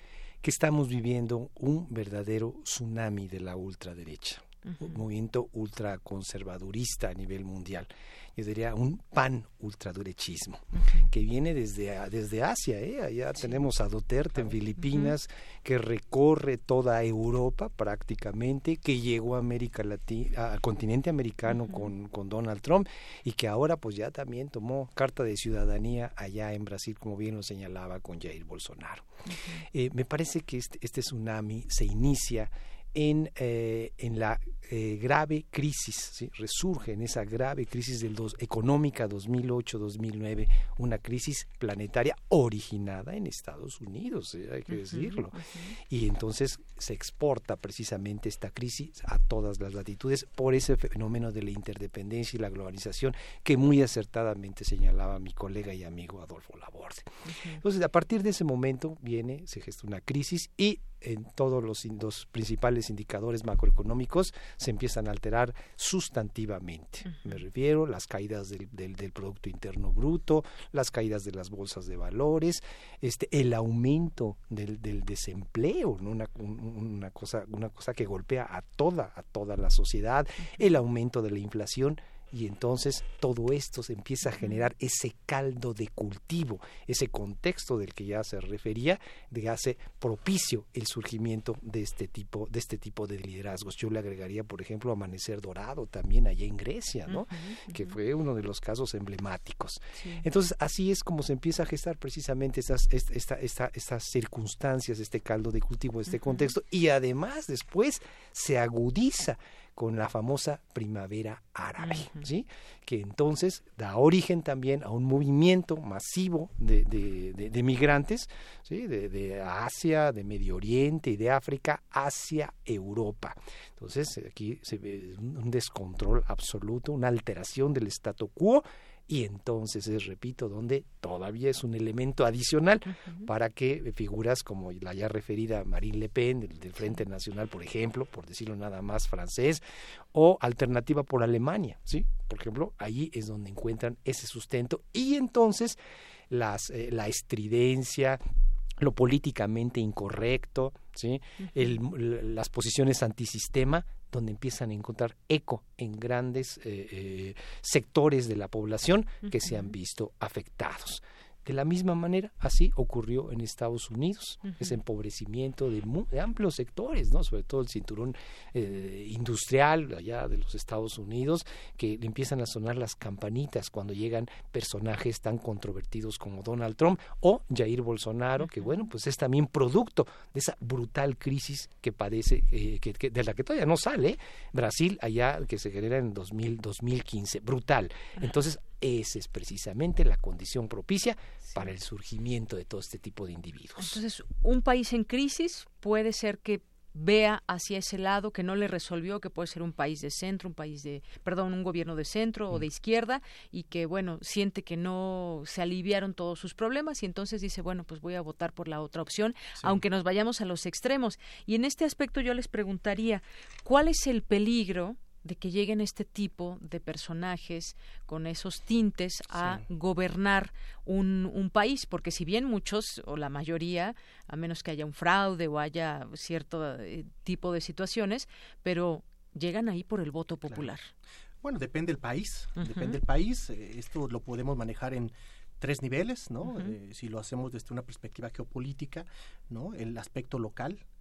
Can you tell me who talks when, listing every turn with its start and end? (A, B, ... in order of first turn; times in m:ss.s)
0:00.4-0:29.1 A
0:04.6-0:05.0 B
0:10.8-0:11.0 B
0:14.8-0:15.1 B
0:21.5-0:21.8 B
0:29.3-0:29.6 B
0:29.7-0:45.4 A
0:44.7-0:45.7 B
0:45.9-2:19.6 A
0:57.2-0:57.6 B
1:07.0-1:07.4 B
1:24.4-1:24.6 B
1:37.1-1:38.0 B
1:40.0-1:40.2 B
1:46.1-1:46.5 B
1:51.8-1:52.2 B
2:12.9-2:13.3 B
2:20.1-2:25.8 A
2:26.3-2:28.2 A
2:28.8-3:14.0 A
2:31.4-2:31.8 B
2:39.2-2:39.7 B
2:44.4-2:44.8 B
2:58.4-2:58.7 B
3:13.8-3:50.9 B
3:39.3-3:39.6 A
3:51.4-4:00.8 C
3:52.6-3:53.0 B
3:56.4-3:56.7 B